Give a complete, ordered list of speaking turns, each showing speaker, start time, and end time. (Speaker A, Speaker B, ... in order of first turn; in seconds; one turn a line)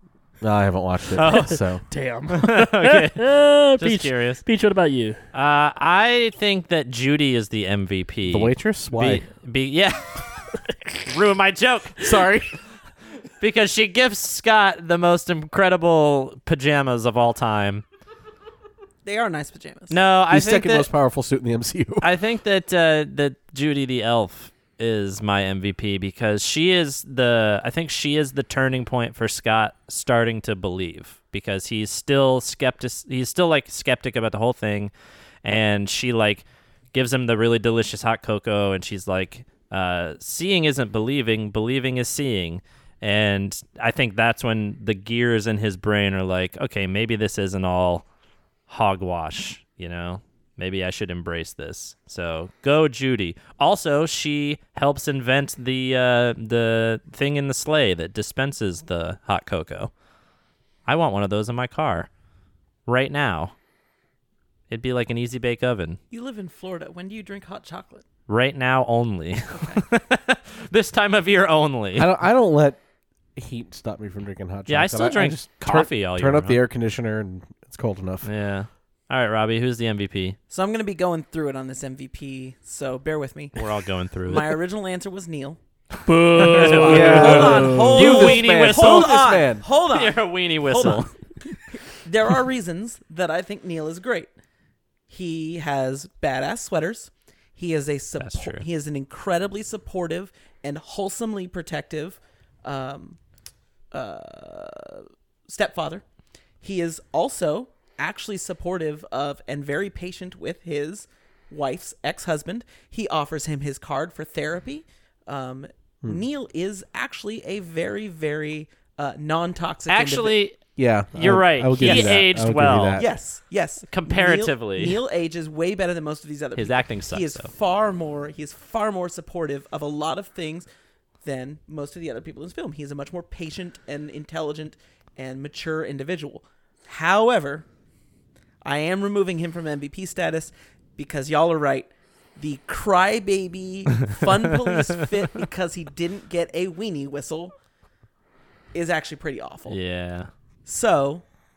Speaker A: 0.4-1.8
Speaker B: 1.1-1.6
Speaker C: 1.9-5.2
Speaker B: 2.3-4.4
Speaker B: 5.3-10.5
Speaker A: 8.3-9.2
Speaker B: 11.1-12.2
Speaker A: 12.0-12.6
Speaker B: 13.4-17.8
Speaker D: 19.0-20.0
Speaker B: 19.9-20.9
Speaker A: 20.3-22.1
Speaker B: 22.0-34.9
Speaker B: 35.4-48.0
Speaker B: 48.7-59.9
Speaker B: 60.9-62.1
Speaker B: 62.9-63.5
Speaker B: 64.7-66.0
Speaker D: 66.1-68.0
Speaker B: 68.3-72.1
Speaker D: 69.5-69.8
Speaker A: 71.9-72.8
Speaker A: 73.3-78.3
Speaker B: 74.7-76.6
Speaker B: 78.2-80.4
Speaker D: 80.5-83.7
Speaker B: 83.5-84.6
Speaker D: 84.3-85.6
Speaker C: 86.0-87.9
Speaker B: 86.4-91.1
Speaker D: 86.7-91.0
Speaker A: 86.8-89.6
Speaker D: 91.7-94.3
Speaker D: 95.1-103.2
Speaker B: 98.2-98.6
Speaker D: 103.9-106.0
Speaker D: 106.6-120.3
Speaker B: 119.9-120.6
Speaker A: 120.8-123.0
Speaker B: 121.1-123.0
Speaker D: 121.8-122.2
Speaker D: 123.0-130.7
Speaker B: 123.9-125.0
Speaker B: 126.5-127.5
Speaker D: 131.2-137.7
Speaker D: 138.6-147.5
Speaker D: 148.7-149.8
Speaker B: 149.7-150.3
Speaker D: 150.6-151.2